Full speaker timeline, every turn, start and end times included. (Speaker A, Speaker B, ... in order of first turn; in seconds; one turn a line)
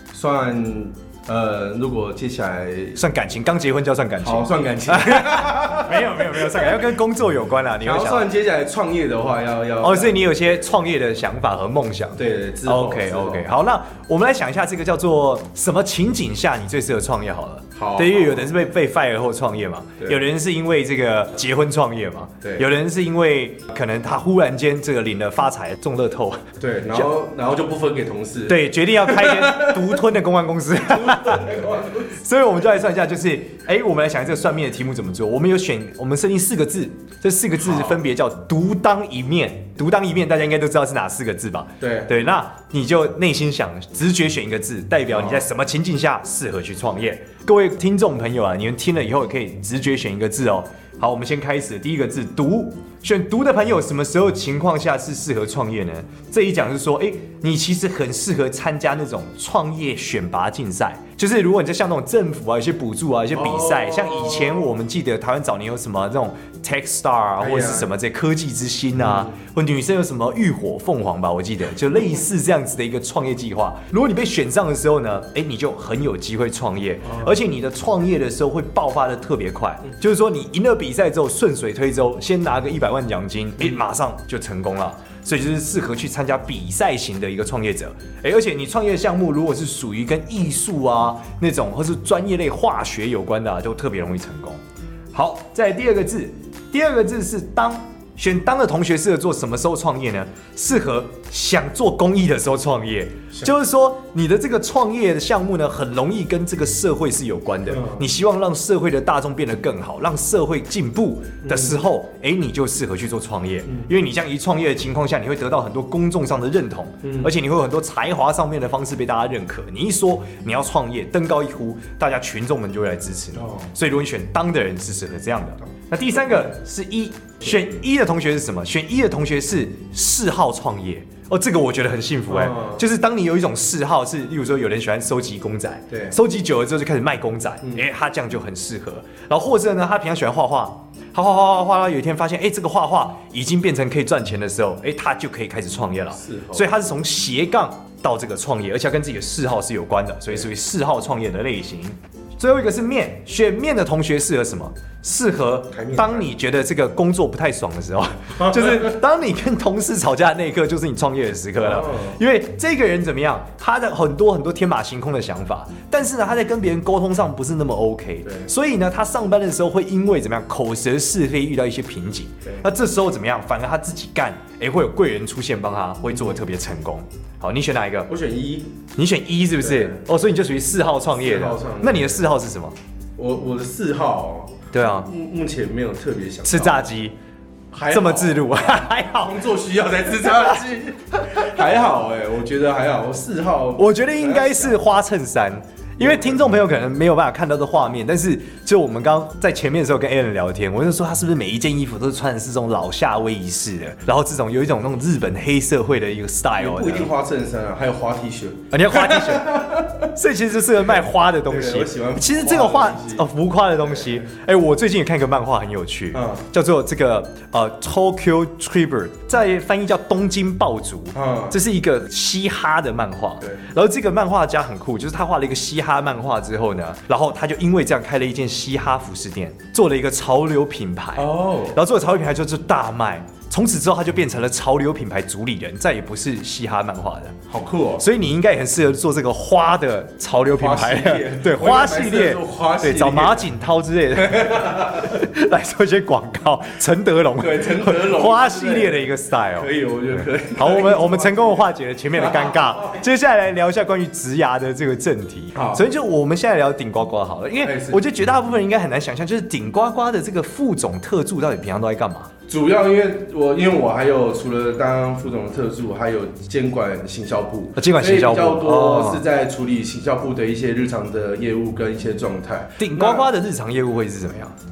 Speaker A: 0.1-3.0
Speaker B: 3.0-8.3
Speaker A: 4.2-6.8
Speaker A: 7.8-10.2
Speaker B: 9.8-27.1
Speaker A: 12.2-13.5
Speaker A: 17.8-18.5
Speaker A: 22.4-22.7
Speaker A: 26.6-30.0
Speaker B: 28.5-94.6
Speaker A: 30.9-32.2
Speaker A: 37.6-38.0
Speaker A: 41.8-42.1
Speaker A: 45.1-45.5
Speaker A: 63.3-64.7
Speaker A: 67.4-67.9
Speaker A: 69.0-69.3
Speaker A: 77.0-77.4
Speaker B: 95.1-178.1
Speaker A: 107.7-108.1
Speaker A: 111.4-111.8
Speaker A: 117.0-117.3
Speaker A: 123.4-123.7
Speaker A: 132.3-132.8
Speaker A: 135.9-136.2
Speaker A: 146.2-146.7
Speaker A: 155.7-156.3
Speaker A: 158.4-158.9
Speaker A: 161.6-162.2
Speaker A: 178.1-178.8
Speaker B: 179.0-182.8
Speaker A: 179.6-180.0
Speaker A: 181.1-182.3
Speaker A: 183.2-186.8
Speaker B: 184.7-185.1
Speaker B: 186.5-187.2
Speaker A: 187.7-188.6
Speaker B: 187.9-189.4
Speaker A: 189.1-194.8
Speaker B: 190.2-190.6
Speaker B: 193.8-207.1
Speaker A: 196.0-196.6
Speaker A: 206.6-210.1
Speaker B: 208.7-237.3
Speaker A: 211.5-213.3
Speaker A: 213.8-214.2
Speaker A: 216.1-216.5
Speaker A: 221.1-221.6
Speaker A: 231.2-231.8
Speaker A: 237.5-238.1
Speaker B: 238.0-262.3
Speaker A: 240.6-243.5
Speaker A: 244.2-245.2
Speaker A: 247.4-253.0
Speaker A: 255.6-255.8
Speaker A: 257.6-258.0
Speaker A: 262.5-273.3
Speaker B: 267.8-269.2
Speaker B: 272.8-274.6